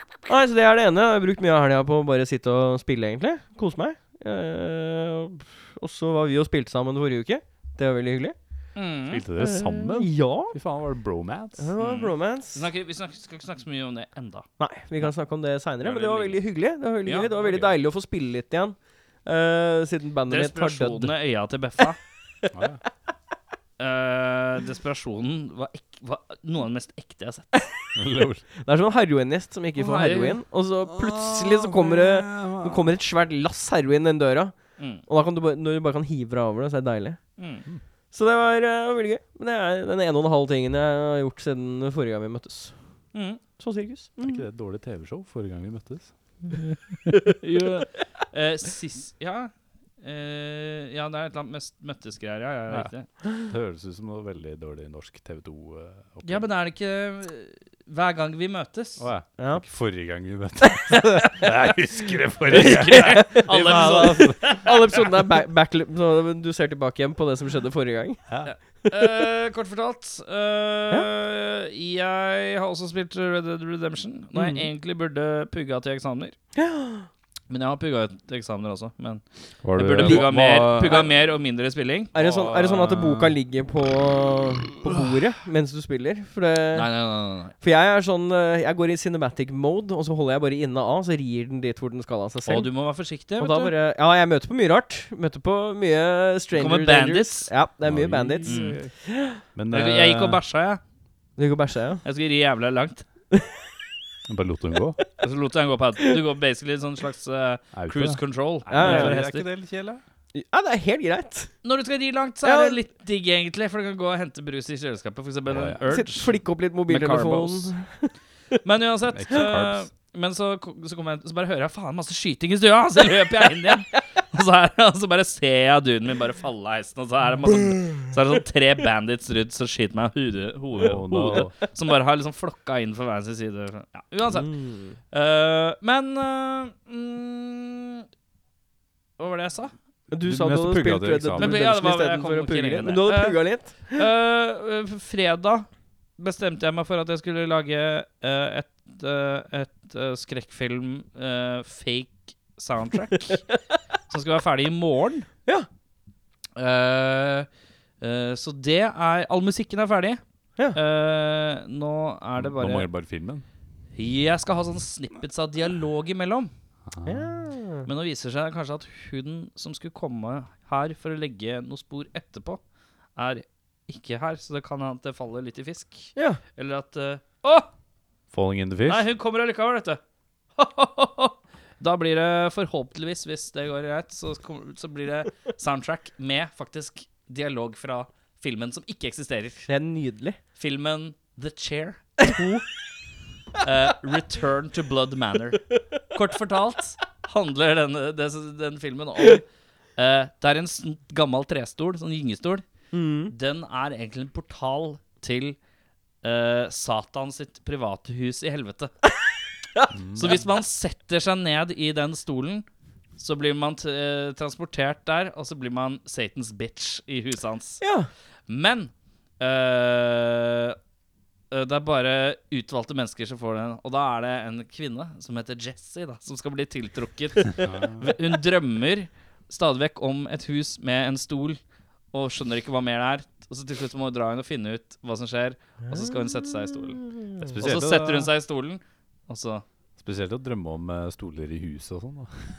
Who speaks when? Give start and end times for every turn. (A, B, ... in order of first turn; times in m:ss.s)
0:00.3-0:08.4 A
0:08.8-0:09.2 B
0:09.1-0:11.7 C
0:09.4-0:10.6 A
0:11.6-0:12.7 A
0:11.8-0:14.5 B
0:14.6-0:21.2 A
0:15.8-0:16.4 B
0:17.0-0:17.7 B
0:20.3-0:22.0 B
0:22.5-0:22.8 C
0:23.8-0:27.6 B
0:28.0-0:28.4 C
0:28.6-0:37.2 A
0:29.8-0:30.4 B
0:30.9-0:32.9 C
0:34.8-0:35.0 B
0:37.4-0:37.6 B
0:38.1-0:42.8 A
0:43.1-0:43.4 B
0:43.6-0:44.4 A
0:44.2-0:46.1 C
0:47.3-0:53.1 B
0:52.7-0:56.5 C
0:56.2-0:59.1 B
0:59.0-1:04.5 C
0:59.4-0:59.6 A
1:02.5-1:03.9 A
1:02.5-1:05.0 B
1:04.4-1:08.2 A
1:08.3-1:08.5 C
1:08.4-1:16.3 B
1:14.3-1:14.7 A
1:16.6-1:17.1 A
1:17.5-1:19.2 B
1:19.6-1:21.0 C
1:19.7-1:23.3 B
1:20.0-1:21.1 A
1:22.1-1:26.9 A
1:26.7-1:27.6 B
1:27.6-1:32.7 A
1:32.5-1:33.7 B
1:33.4-1:39.4 A
1:36.5-1:37.5 B
1:37.8-1:38.9 C
1:38.4-1:38.8 B
1:39.5-1:40.4 C
1:39.7-1:40.8 B
1:41.4-1:42.0 A
1:42.0-1:43.0 B
1:44.3-1:45.0 C
1:45.2-1:49.5 B
1:47.7-1:50.0 C
1:48.7-1:49.2 A
1:50.3-1:51.5 A
1:51.6-1:57.8 B
1:52.4-1:52.8 A
1:55.5-1:55.8 C
1:55.9-1:58.1 A
1:58.6-2:18.0 B
1:59.1-1:59.9 C
2:10.8-2:11.6 C
2:11.1-2:11.5 A
2:14.3-2:15.0 A
2:19.2-2:19.7 B
2:20.1-2:24.0 A
2:20.2-2:21.6 C
2:21.4-2:25.7 B
2:26.2-2:33.4 B
2:34.1-2:35.3 B
2:36.6-2:37.5 B
2:38.0-2:40.2 B
2:40.7-2:42.9 B
2:42.4-2:43.4 C
2:44.0-2:46.5 B
2:46.9-2:47.3 C
2:47.0-2:47.9 A
2:47.9-2:52.6 B
2:53.2-2:57.7 B
2:56.2-2:56.4 A
2:58.3-2:59.1 C
2:58.9-3:00.0 B
3:00.6-3:09.7 B
3:09.7-3:10.4 A
3:10.6-3:12.6 B
3:12.2-3:12.6 A
3:13.6-3:19.4 B
3:20.0-3:22.6 B
3:22.9-3:23.3 A
3:23.3-3:25.6 B
3:26.2-3:28.9 B
3:29.9-3:30.4 C
3:30.2-3:32.7 B
3:33.2-3:37.8 B
3:37.8-3:38.1 A
3:38.5-3:40.8 B
3:41.5-3:51.6 B
3:47.6-3:48.2 C
3:52.1-3:59.6 B
3:57.4-3:58.3 C
4:00.0-4:02.3 C